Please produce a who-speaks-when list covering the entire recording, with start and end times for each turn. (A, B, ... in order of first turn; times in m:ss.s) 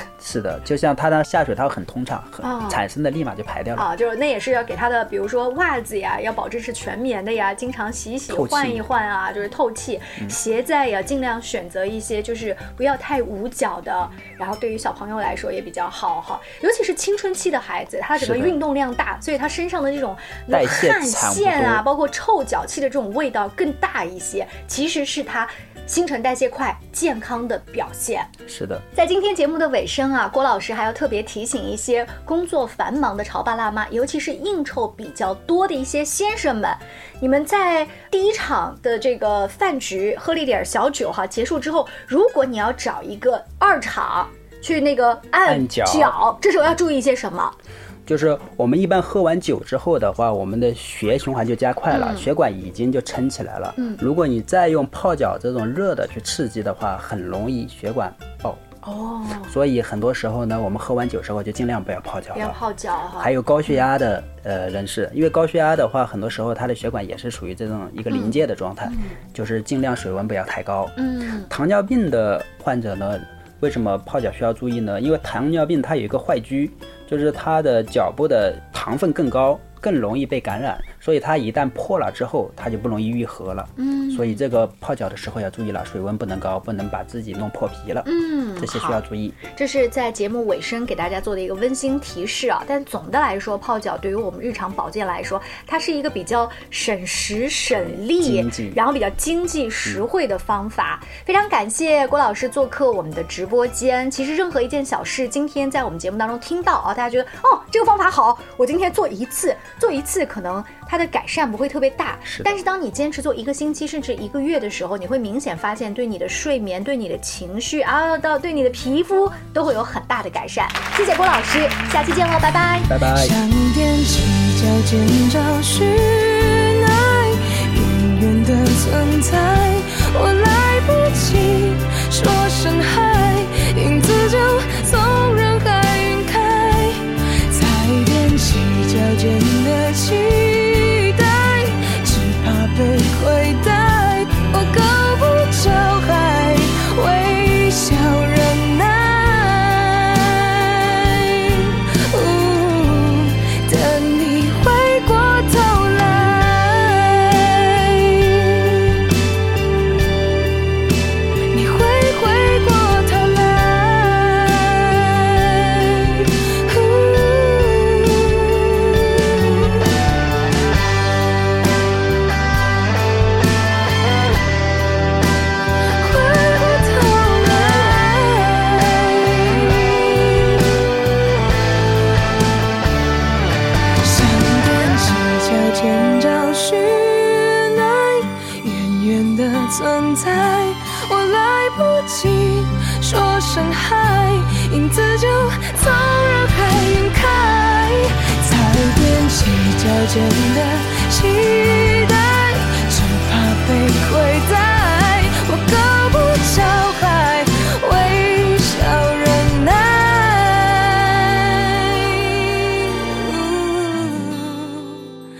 0:00.2-0:03.9 A
0:02.4-0:02.8 B
0:03.8-0:28.3 B
0:08.3-0:08.8 A
0:18.2-0:18.6 A
0:20.5-0:21.8 A
0:28.5-0:28.8 A
0:28.9-0:47.5 B
0:45.4-0:46.2 A
0:48.0-0:58.6 A
0:51.9-0:52.3 B
0:58.8-0:59.5 B
0:59.4-1:02.6 A
1:02.3-1:03.3 B
1:03.2-1:28.1 A
1:08.1-1:09.2 B
1:11.0-1:11.5 B
1:23.8-1:24.4 B
1:28.0-2:03.0 B
1:28.6-1:29.4 A
1:37.7-1:38.8 A
2:02.9-2:03.4 A
2:03.1-2:39.0 C
2:41.5-2:49.8 C
2:56.0-3:00.6 C
3:04.0-3:35.1 C